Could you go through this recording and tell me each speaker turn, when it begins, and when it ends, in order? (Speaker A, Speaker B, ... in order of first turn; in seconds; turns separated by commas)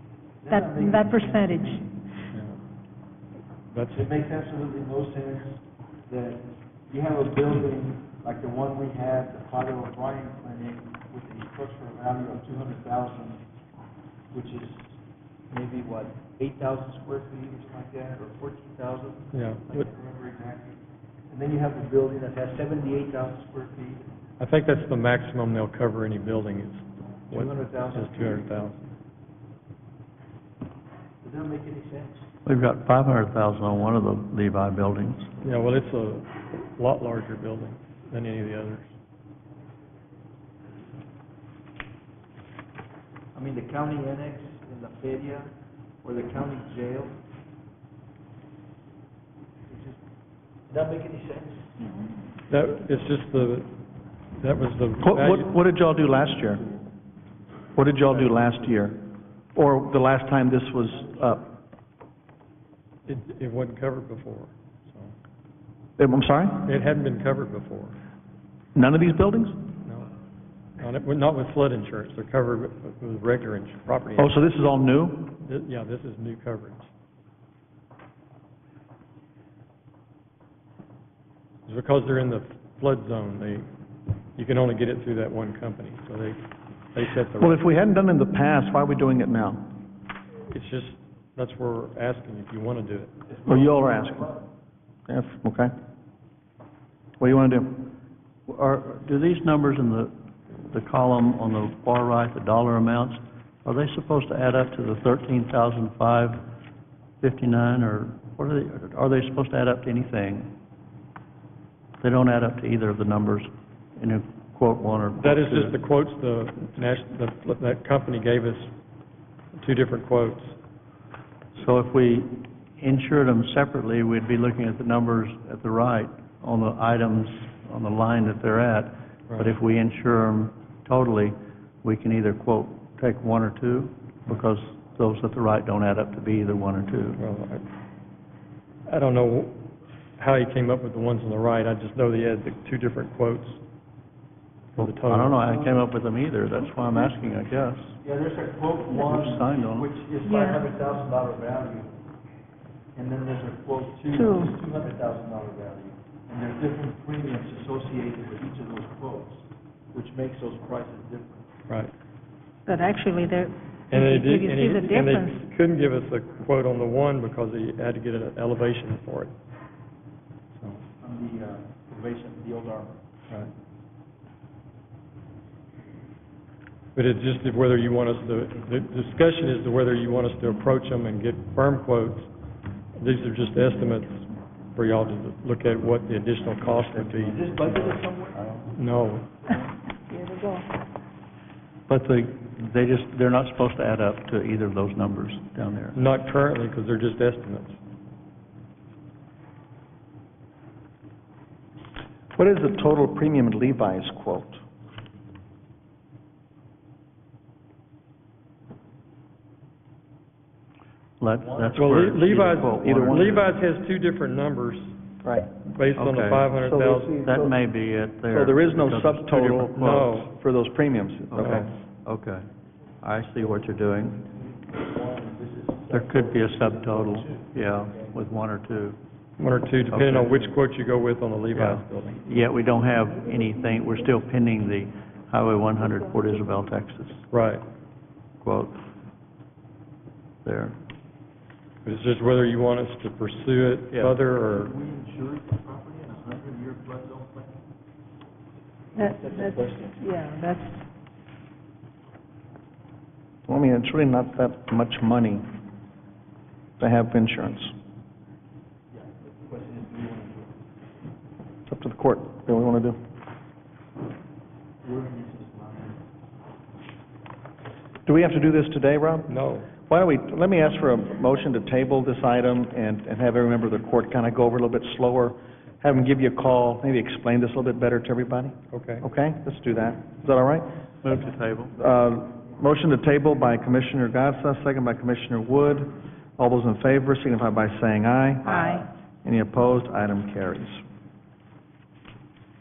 Speaker A: 0.4-2.0, Speaker B: 0.5-1.8, Speaker C: 2.3-2.6, Speaker C: 3.7-4.1, Speaker A: 3.9-13.4, Speaker A: 14.3-15.0, Speaker A: 15.5-24.1, Speaker C: 19.3-19.9, Speaker C: 24.4-28.8, Speaker A: 27.3-28.7, Speaker A: 31.2-32.2, Speaker D: 32.4-35.3, Speaker C: 35.4-38.9, Speaker A: 43.3-45.5, Speaker A: 46.0-47.2, Speaker A: 49.7-50.0, Speaker A: 50.7-51.8, Speaker C: 52.5-53.7, Speaker C: 54.3-55.5, Speaker E: 55.0-56.6, Speaker E: 57.8-59.0, Speaker E: 59.5-61.5, Speaker C: 63.0-65.1, Speaker E: 66.0-66.6, Speaker C: 66.6-68.0, Speaker E: 68.7-69.6, Speaker C: 70.8-74.3, Speaker E: 74.2-75.3, Speaker C: 75.4-76.9, Speaker C: 81.7-83.7, Speaker C: 84.3-86.4, Speaker C: 86.9-87.6, Speaker E: 87.4-89.6, Speaker C: 90.5-93.1, Speaker A: 93.3-94.4, Speaker E: 93.5-94.3, Speaker E: 95.1-95.7, Speaker E: 97.2-97.9, Speaker D: 98.5-106.4, Speaker D: 107.2-110.5, Speaker D: 112.0-115.7, Speaker C: 115.2-118.7, Speaker C: 119.5-120.6, Speaker D: 121.5-137.2, Speaker C: 137.2-137.6, Speaker C: 138.9-139.6, Speaker C: 140.2-143.6, Speaker C: 144.8-145.4, Speaker D: 144.8-148.0, Speaker A: 145.5-145.8, Speaker A: 146.7-147.1, Speaker A: 148.0-151.9, Speaker D: 148.9-149.9, Speaker B: 150.2-150.7, Speaker A: 152.9-161.5, Speaker B: 154.1-154.5, Speaker B: 162.7-165.4, Speaker C: 163.9-169.3, Speaker C: 170.6-170.8, Speaker A: 171.0-173.0, Speaker C: 176.9-182.3, Speaker C: 182.9-187.4, Speaker D: 186.6-188.7, Speaker A: 187.3-188.4, Speaker C: 188.7-189.5, Speaker B: 190.1-190.7, Speaker D: 191.9-196.0, Speaker C: 195.9-197.8, Speaker E: 202.3-204.6, Speaker D: 211.2-213.4, Speaker C: 211.8-215.0, Speaker E: 212.8-213.4, Speaker E: 215.2-215.5, Speaker C: 215.6-217.3, Speaker D: 215.9-216.5, Speaker E: 216.6-217.5, Speaker D: 217.2-220.3, Speaker E: 218.3-221.7, Speaker C: 219.8-220.3, Speaker D: 221.3-222.5, Speaker C: 221.4-221.7, Speaker D: 223.0-224.2, Speaker A: 224.2-228.1, Speaker D: 225.9-229.0, Speaker C: 229.4-232.2, Speaker D: 229.9-230.5, Speaker D: 231.5-237.2, Speaker C: 237.3-237.6, Speaker D: 238.4-238.8, Speaker D: 240.4-240.8, Speaker C: 241.8-244.7, Speaker A: 244.3-247.6, Speaker B: 248.9-250.8, Speaker A: 249.0-250.1, Speaker E: 253.5-255.4, Speaker E: 256.8-257.7, Speaker A: 258.9-260.6, Speaker E: 261.6-263.0, Speaker A: 264.8-266.0, Speaker E: 268.0-280.7, Speaker C: 269.3-269.7, Speaker C: 278.7-279.0, Speaker D: 281.0-281.7, Speaker E: 281.8-290.8, Speaker B: 288.4-288.9